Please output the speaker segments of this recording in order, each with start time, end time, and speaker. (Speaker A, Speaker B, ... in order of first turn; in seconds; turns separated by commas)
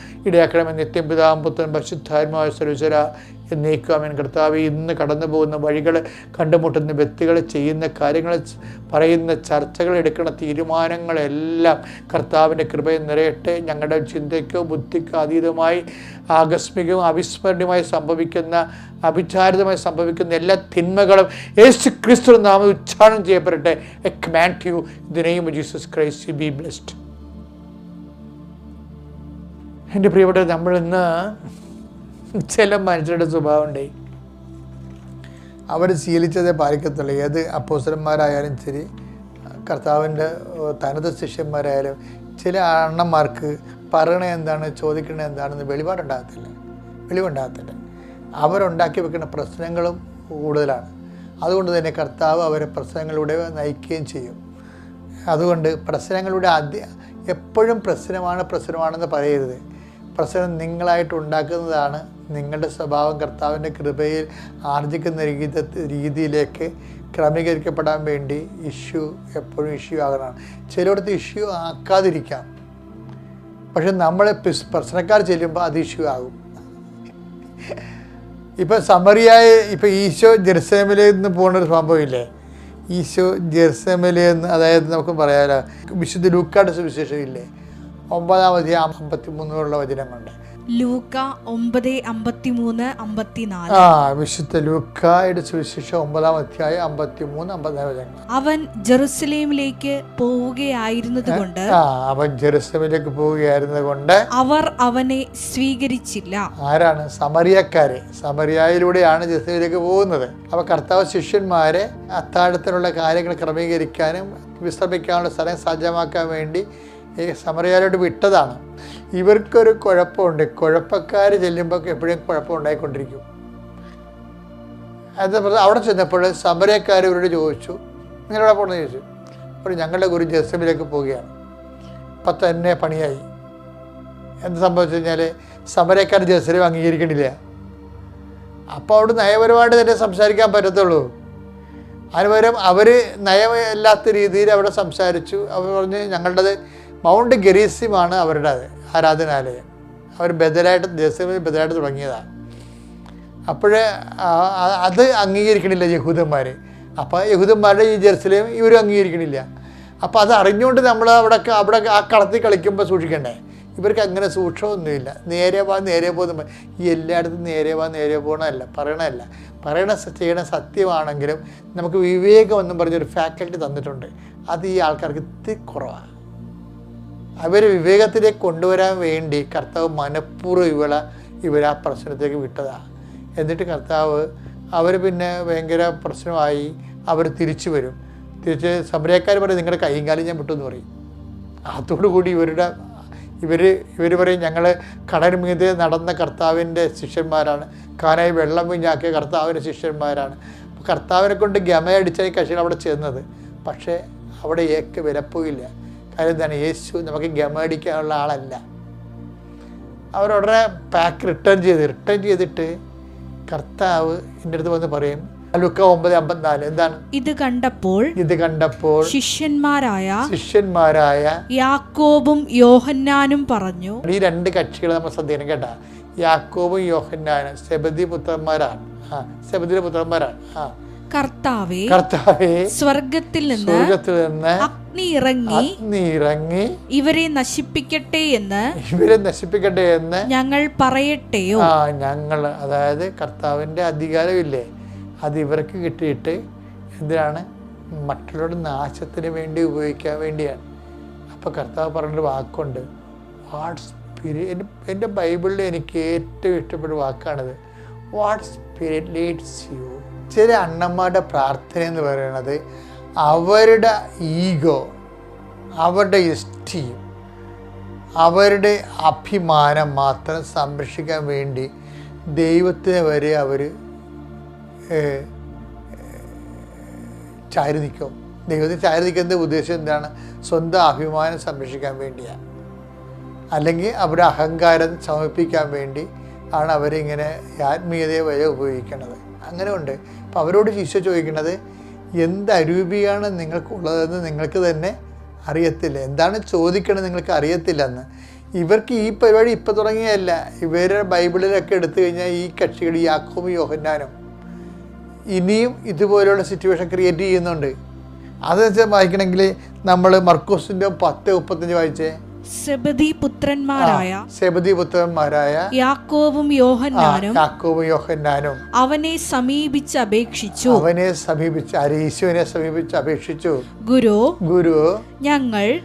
Speaker A: 0.3-15.8, Speaker A: 16.4-27.0, Speaker A: 29.9-31.5, Speaker A: 32.4-33.9, Speaker A: 35.7-38.9, Speaker A: 39.7-46.5, Speaker A: 47.1-47.8, Speaker A: 48.4-50.9, Speaker A: 51.5-54.4, Speaker A: 55.3-59.6, Speaker A: 60.2-72.5, Speaker A: 73.7-76.4, Speaker A: 78.6-82.3, Speaker A: 82.9-87.5, Speaker A: 88.1-90.3, Speaker B: 90.8-93.9, Speaker A: 93.7-98.2, Speaker B: 98.3-101.7, Speaker A: 101.3-104.2, Speaker B: 104.4-106.5, Speaker A: 106.6-116.6, Speaker A: 117.2-118.6, Speaker A: 119.2-123.2, Speaker A: 125.2-127.8, Speaker A: 128.3-129.1, Speaker A: 129.6-131.3, Speaker A: 132.2-133.3, Speaker A: 134.4-137.3, Speaker A: 138.8-141.1, Speaker A: 142.2-146.6, Speaker A: 147.1-149.7, Speaker A: 150.2-152.3, Speaker A: 153.5-159.5, Speaker A: 160.0-176.1, Speaker A: 177.4-182.8, Speaker A: 183.4-184.3, Speaker A: 184.8-190.9, Speaker A: 191.7-192.7, Speaker A: 193.4-208.6, Speaker A: 210.2-212.7, Speaker A: 213.5-217.0, Speaker B: 217.1-218.1, Speaker A: 218.2-219.1, Speaker B: 219.1-220.2, Speaker A: 220.2-221.4, Speaker B: 221.6-224.0, Speaker A: 224.0-230.7, Speaker B: 231.1-232.0, Speaker A: 231.9-232.7, Speaker B: 232.7-233.9, Speaker A: 233.5-234.7, Speaker B: 234.6-235.8, Speaker A: 235.5-236.7, Speaker B: 236.9-238.7, Speaker A: 238.8-240.3, Speaker B: 240.3-241.7, Speaker A: 241.6-244.7, Speaker A: 245.3-246.4, Speaker A: 247.0-247.5, Speaker A: 248.1-250.6, Speaker A: 251.3-252.8, Speaker A: 253.5-257.6, Speaker A: 258.2-262.6, Speaker A: 263.3-264.8, Speaker A: 265.8-267.0, Speaker A: 268.2-271.7, Speaker A: 272.4-273.7, Speaker A: 274.9-275.3, Speaker A: 276.0-276.4, Speaker A: 277.5-282.4, Speaker A: 283.6-291.6, Speaker A: 292.2-294.9, Speaker A: 295.5-298.1, Speaker A: 298.6-304.1, Speaker A: 305.4-307.7, Speaker A: 308.5-312.1, Speaker B: 312.5-314.2, Speaker A: 313.8-315.7, Speaker B: 315.7-317.4, Speaker A: 316.9-318.6, Speaker B: 318.8-320.9, Speaker A: 320.7-323.6, Speaker B: 323.9-324.4, Speaker A: 324.4-325.0, Speaker B: 325.2-325.7